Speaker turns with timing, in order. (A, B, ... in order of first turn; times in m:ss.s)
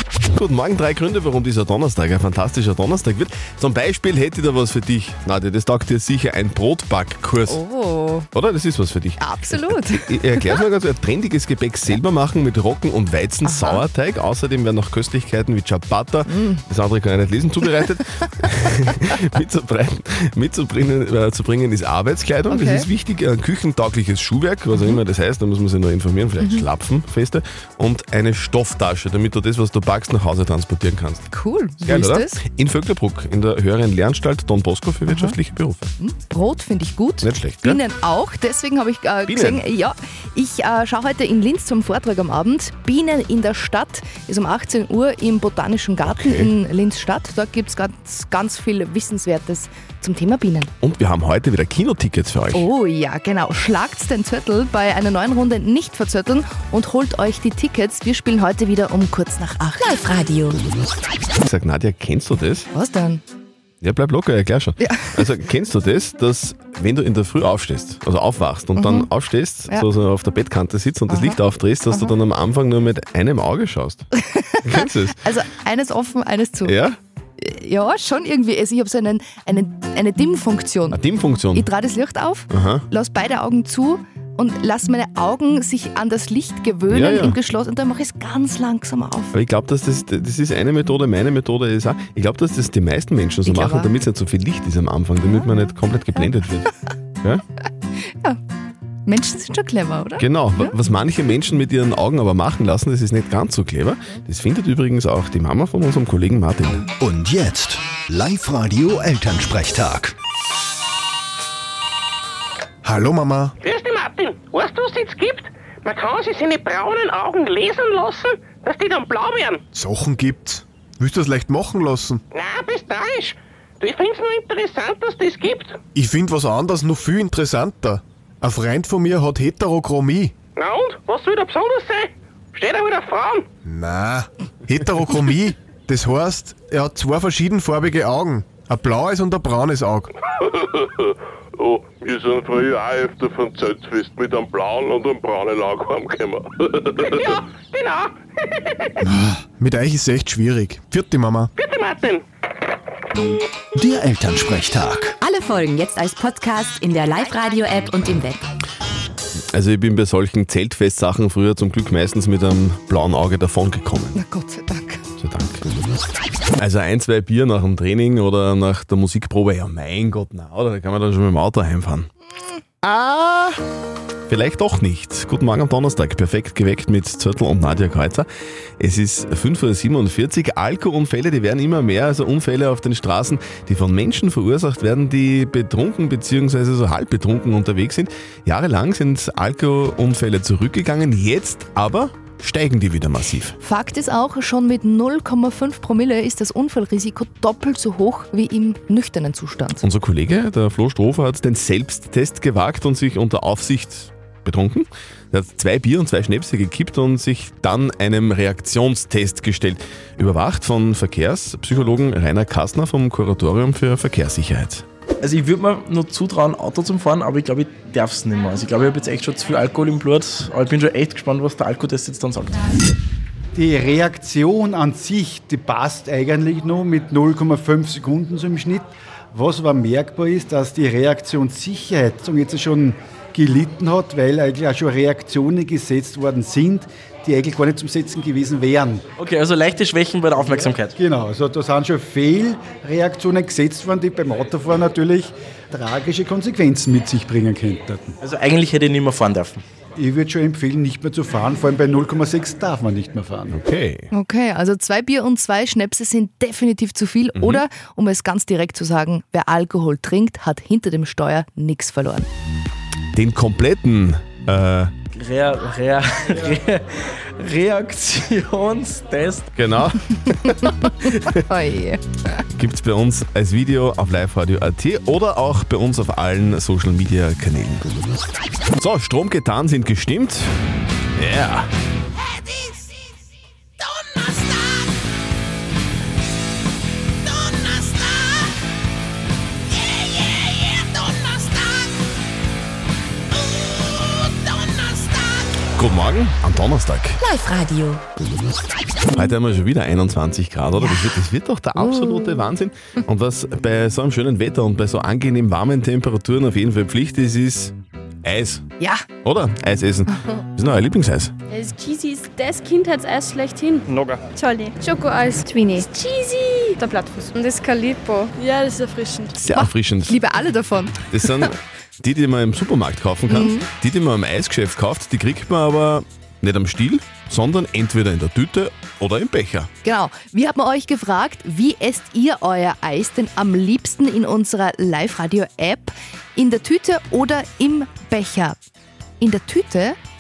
0:00.3-0:07.6 A
0:07.5-0:08.3 B
0:08.3-0:31.3 A
0:09.2-0:10.6 B
0:13.4-0:13.8 B
0:16.3-0:16.6 B
0:22.5-0:22.9 B
0:24.7-0:25.0 B
0:26.4-0:26.7 B
0:31.3-0:32.4 B
0:31.8-0:35.9 A
0:35.1-0:35.4 B
0:36.0-0:50.7 B
0:37.2-0:37.8 A
0:39.3-0:39.6 A
0:46.1-0:46.5 A
0:50.8-0:52.7 A
0:52.5-1:00.0 B
0:59.8-1:00.6 C
1:01.4-1:02.7 A
1:02.7-1:03.2 B
1:03.8-1:14.1 A
1:04.8-1:05.1 B
1:08.8-1:09.1 B
1:11.1-1:11.4 B
1:14.3-1:16.7 B
1:14.6-1:15.2 A
1:16.6-1:17.0 A
1:17.4-1:21.0 B
1:20.9-1:21.7 A
1:21.5-1:29.4 B
1:22.5-1:22.9 A
1:26.9-1:27.4 A
1:29.3-1:36.7 A
1:33.4-1:33.9 B
1:39.1-1:40.8 B
1:40.2-1:46.9 A
1:47.0-1:50.1 D
1:52.8-1:53.5 E
1:53.6-1:59.6 F
1:59.7-2:02.2 E
2:02.3-2:05.8 F
2:06.0-2:10.3 E
2:10.6-2:13.5 F
2:13.7-2:20.1 E
2:20.4-2:27.2 G
2:27.1-2:28.2 F
2:29.1-2:31.5 E
2:31.6-2:32.2 F
2:33.8-2:35.2 D
2:35.2-2:38.4 C
2:39.5-2:44.2 A
2:44.2-2:45.0 B
2:45.2-2:45.6 A
2:46.6-2:52.1 A
2:52.8-2:53.6 A
2:54.3-2:58.3 A
2:58.8-3:13.6 A
3:13.6-3:19.8 B
3:19.8-3:34.8 A
3:35.2-3:42.9 H
3:43.6-3:59.0 I
3:59.2-4:01.0 H
4:00.4-4:08.2 I
4:08.2-4:09.6 H
4:10.0-4:13.6 I
4:13.5-4:14.1 A
4:14.1-4:22.3 B
4:17.4-4:17.6 A
4:23.1-4:24.9 A
4:25.2-4:29.5 H
4:29.6-4:30.7 A
4:30.7-4:32.2 B
4:32.5-4:37.9 A
4:38.8-4:40.5 A
4:41.2-4:41.7 A
4:55.8-4:57.2 A
4:57.2-4:58.0 C
4:59.1-5:07.7 A
5:00.8-5:01.2 B
5:08.2-5:08.6 A
5:08.8-5:09.0 B
5:09.2-5:11.3 A
5:11.5-5:19.3 J
5:19.4-5:20.2 A
5:19.5-5:21.5 B
5:21.1-5:29.7 A
5:23.3-5:23.7 B
5:29.8-5:38.6 B
5:39.2-5:40.0 B